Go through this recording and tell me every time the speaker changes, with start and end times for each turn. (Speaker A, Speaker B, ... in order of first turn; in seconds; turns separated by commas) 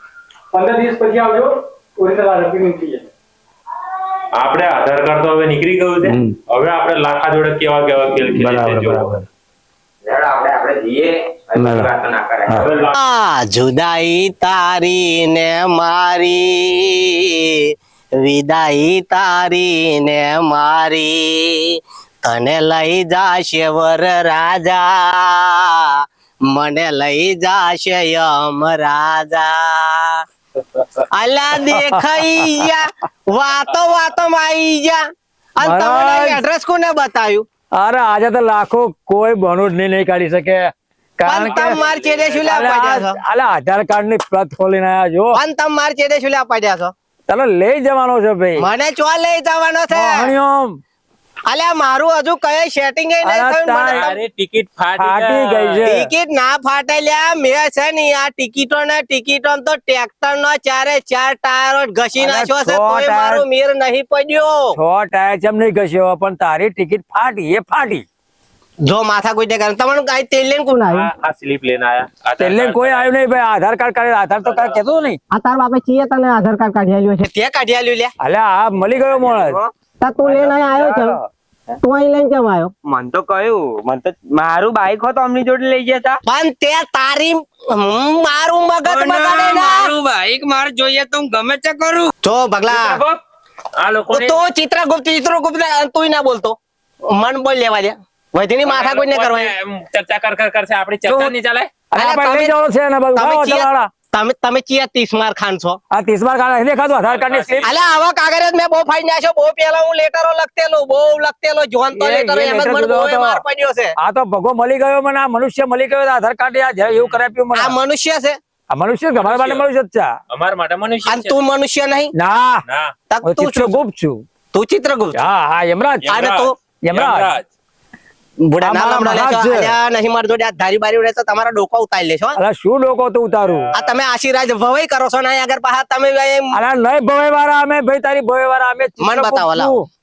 Speaker A: 0.5-3.0, Speaker B: 4.3-9.1, Speaker C: 6.0-6.3, Speaker C: 8.3-9.2, Speaker D: 10.0-12.9, Speaker C: 11.6-11.9, Speaker B: 12.5-13.0, Speaker E: 12.9-30.2, Speaker E: 31.1-35.0, Speaker C: 31.6-32.7, Speaker E: 35.5-37.5, Speaker C: 35.6-36.4, Speaker C: 37.8-41.8, Speaker E: 41.2-43.2, Speaker B: 41.4-42.7, Speaker C: 42.4-45.4, Speaker E: 45.3-46.9, Speaker C: 47.3-48.6, Speaker E: 48.6-50.3, Speaker C: 49.9-50.8, Speaker E: 51.5-54.1, Speaker C: 53.2-54.1, Speaker B: 53.9-55.9, Speaker C: 55.0-56.1, Speaker E: 55.8-64.8, Speaker C: 62.2-63.4, Speaker C: 64.7-68.0, Speaker E: 68.8-71.1, Speaker B: 70.9-73.1, Speaker C: 72.4-75.2, Speaker B: 74.3-74.8, Speaker E: 75.3-78.1, Speaker C: 78.2-79.6, Speaker D: 79.0-81.3, Speaker E: 80.0-81.2, Speaker E: 81.8-82.7, Speaker D: 82.8-86.2, Speaker E: 86.2-89.9, Speaker D: 88.8-92.1, Speaker E: 92.2-93.0, Speaker B: 92.7-93.2, Speaker B: 93.8-94.4, Speaker E: 94.1-99.5, Speaker B: 98.7-101.7, Speaker C: 101.9-103.9, Speaker E: 102.0-102.5, Speaker E: 103.1-105.8, Speaker C: 105.9-107.7, Speaker B: 106.9-107.7, Speaker E: 107.6-113.9, Speaker C: 111.9-113.4, Speaker C: 114.0-117.8, Speaker B: 116.8-117.2, Speaker E: 117.5-118.4, Speaker C: 118.7-120.1, Speaker B: 119.1-119.7, Speaker B: 120.3-121.4, Speaker E: 121.0-122.1, Speaker C: 122.1-122.6, Speaker B: 122.7-122.9, Speaker E: 123.1-123.8, Speaker C: 123.2-124.2, Speaker E: 124.5-125.2, Speaker C: 125.1-126.2, Speaker B: 126.0-127.5, Speaker E: 126.1-126.5, Speaker C: 126.8-127.3, Speaker E: 128.4-132.4, Speaker C: 128.6-129.7, Speaker C: 132.4-133.7, Speaker B: 133.4-134.0, Speaker E: 133.7-136.6, Speaker C: 136.5-139.8, Speaker E: 139.0-139.8